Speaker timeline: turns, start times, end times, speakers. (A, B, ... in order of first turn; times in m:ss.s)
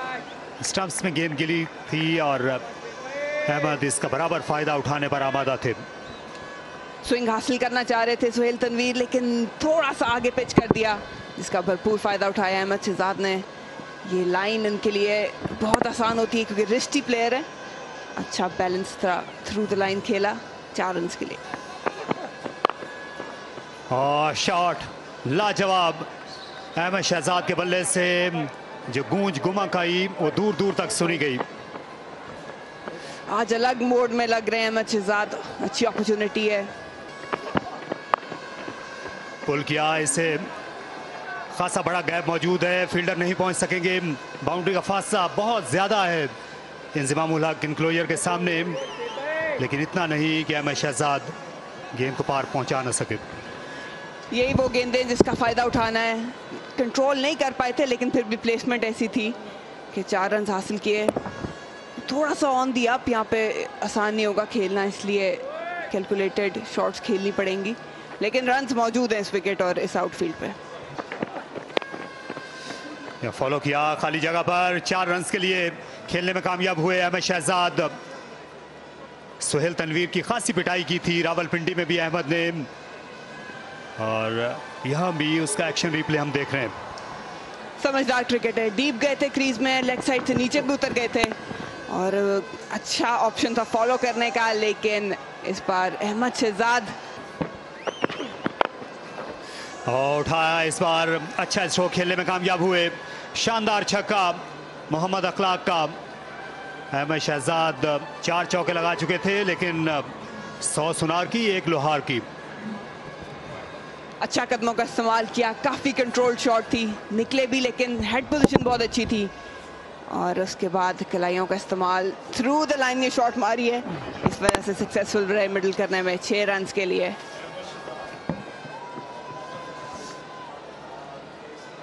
0:00.6-0:02.6 A
0:03.5-0:05.8 A
0:07.0-0:13.4 B
0:14.0-0:17.5 B
0:18.2-0:21.4 B
0:23.9-0:26.1 A
0:26.8-0:31.4 A
0:33.3-0:36.7 B
0:39.4-0:40.5 A
0:41.5-0:46.3 A
0:46.9-0:48.8 A
0:49.6-0:51.3 A
0:51.9-0:53.2 A
0:54.3-0:59.4 B
0:59.9-1:01.2 B
1:02.0-1:10.6 B
1:13.2-1:18.0 A
1:19.4-1:22.7 A
1:24.0-1:26.7 A
1:27.8-1:31.3 B
1:31.9-1:36.9 B
1:39.9-1:46.0 A
1:46.9-1:50.1 A
1:50.6-1:52.3 A
1:54.2-1:59.3 B
2:00.1-2:07.2 B